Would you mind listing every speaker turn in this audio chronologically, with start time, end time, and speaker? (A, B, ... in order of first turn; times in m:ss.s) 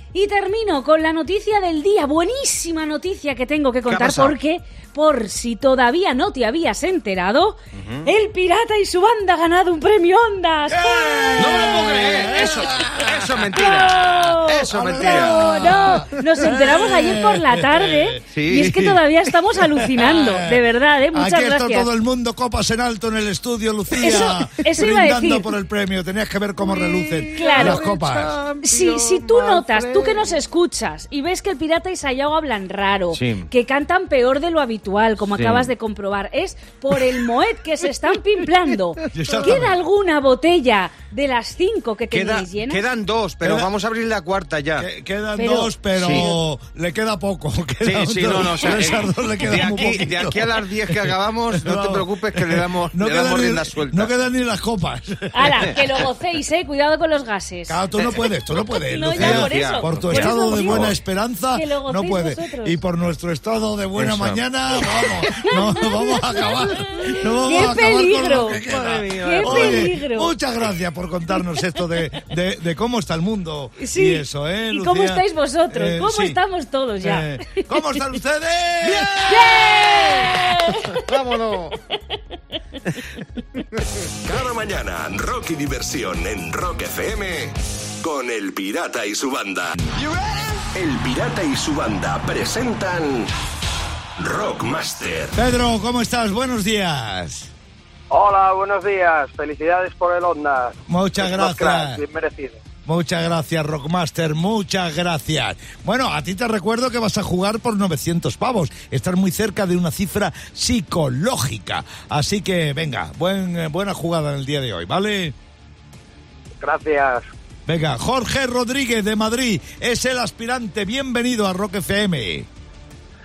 0:00.1-0:11.7 A
0:03.9-0:04.4 B
0:07.7-0:08.1 B
0:10.7-0:13.2 C
0:11.4-0:16.2 B
0:13.5-0:21.9 A
0:14.7-0:19.0 C
0:18.3-0:18.9 B
0:19.8-0:28.4 C
0:24.0-0:25.5 A
0:26.6-0:30.4 B
0:27.3-0:27.9 A
0:28.6-0:42.8 A
0:33.1-0:33.5 B
0:35.3-0:35.7 B
0:39.1-0:39.8 C
0:42.1-0:44.9 B
0:44.8-0:55.8 C
0:45.4-0:46.4 A
0:46.0-0:46.3 B
0:47.8-0:54.1 B
0:55.3-0:57.8 A
0:57.7-1:16.4 C
0:58.8-1:00.9 A
0:59.1-1:00.9 B
1:01.5-1:02.8 A
1:04.0-1:04.4 B
1:05.4-1:10.3 A
1:08.4-1:10.0 B
1:13.8-1:18.1 A
1:17.0-1:19.5 C
1:18.8-1:20.0 B
1:19.2-1:21.1 A
1:21.0-1:21.8 B
1:24.2-1:29.8 D
1:30.7-1:33.3 D
1:34.2-1:35.4 D
1:35.3-1:37.5 C
1:38.1-1:42.6 E
1:40.9-1:42.0 C
1:42.8-1:55.3 C
1:56.6-1:57.2 E
1:57.6-2:02.5 C